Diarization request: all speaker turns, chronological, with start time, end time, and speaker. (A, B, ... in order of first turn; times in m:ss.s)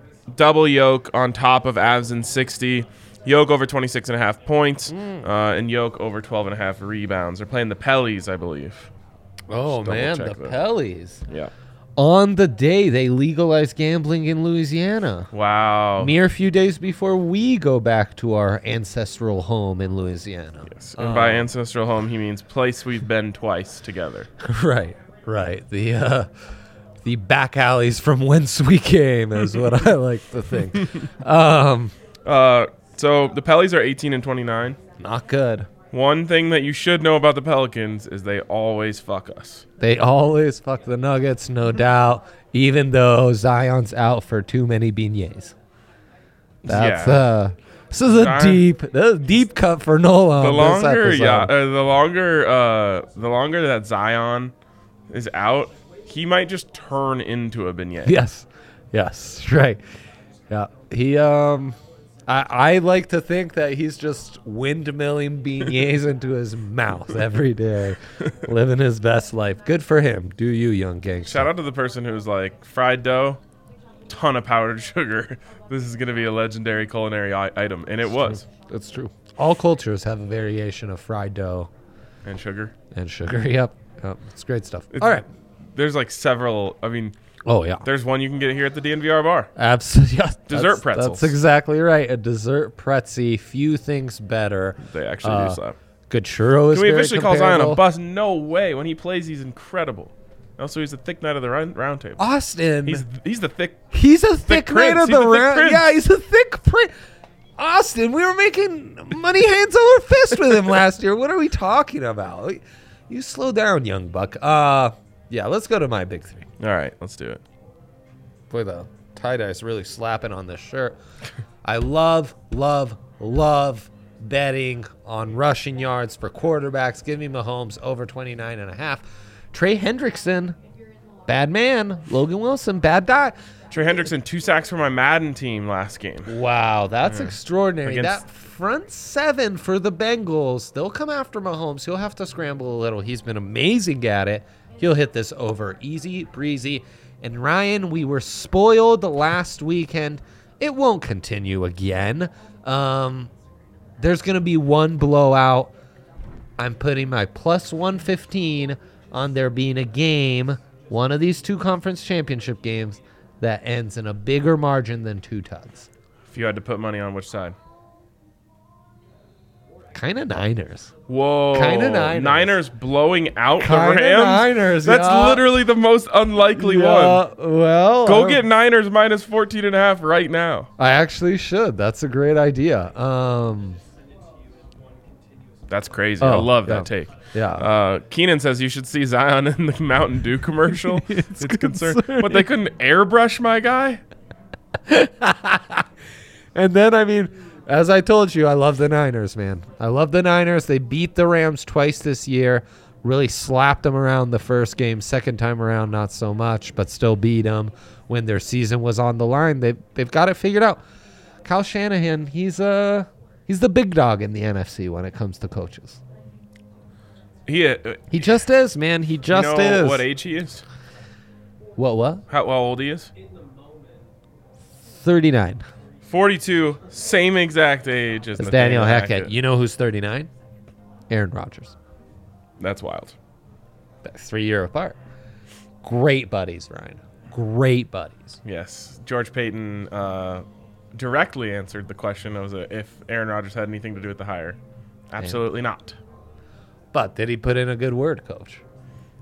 0:00.3-0:08.9 A
0:04.9-0:05.3 B
0:09.5-0:11.2 B
0:09.7-0:10.6 A
0:12.0-0:15.3 B
0:15.3-0:16.1 A
0:16.0-0:21.4 B
0:20.7-0:24.3 A
0:24.4-0:26.3 B
0:27.0-0:31.9 B
0:30.7-0:31.0 A
0:32.2-0:34.8 A
0:35.0-0:35.7 B
0:35.9-0:39.6 A
0:39.8-0:45.5 B
0:46.6-0:47.2 A
0:46.6-0:51.5 B
0:48.1-0:48.6 A
0:50.4-0:54.5 A
0:55.1-0:58.2 A
0:58.0-0:59.8 B
1:00.5-1:11.5 B
1:11.3-1:13.4 A
1:14.1-1:18.4 A
1:18.2-1:21.7 B
1:22.2-1:22.7 A
1:22.9-1:25.2 B
1:24.9-1:27.1 A
1:27.4-1:27.8 B
1:27.8-1:29.5 A
1:29.6-1:37.8 B
1:30.5-1:31.3 A
1:34.8-1:35.8 A
1:36.7-1:42.2 A
1:42.2-1:43.0 B
1:42.8-1:43.8 A
1:43.9-1:46.9 B
1:44.4-1:45.9 A
1:47.6-1:56.5 B
1:56.6-1:57.4 A
1:58.5-2:01.0 B
2:01.6-2:10.6 B
2:11.3-2:13.4 B
2:13.7-2:16.3 A
2:16.2-2:33.3 B
2:17.0-2:18.2 A
2:34.0-2:35.7 B
2:36.6-2:45.9 B
2:46.3-2:47.6 A
2:49.9-2:50.9 B
2:51.1-2:57.2 A
2:51.5-2:52.6 B
2:53.6-2:55.4 B
2:56.5-2:58.4 B
2:58.0-3:00.7 A
3:00.8-3:03.8 B
3:05.7-3:14.0 A
3:06.2-3:07.7 B
3:10.7-3:12.5 B
3:14.8-3:15.9 B
3:16.5-3:30.8 B
3:31.4-3:36.0 B
3:37.5-3:38.1 A
3:38.1-3:40.1 B
3:39.3-3:40.6 A
3:41.8-3:42.2 B
3:42.3-3:43.1 A
3:44.8-3:45.6 B
3:46.0-3:49.3 A
3:48.4-3:50.3 B
3:51.1-3:51.7 B
3:52.6-3:53.1 A
3:54.0-3:55.0 B
3:55.8-3:58.4 B
3:58.4-4:04.6 A
4:05.1-4:06.0 A
4:06.9-4:08.6 B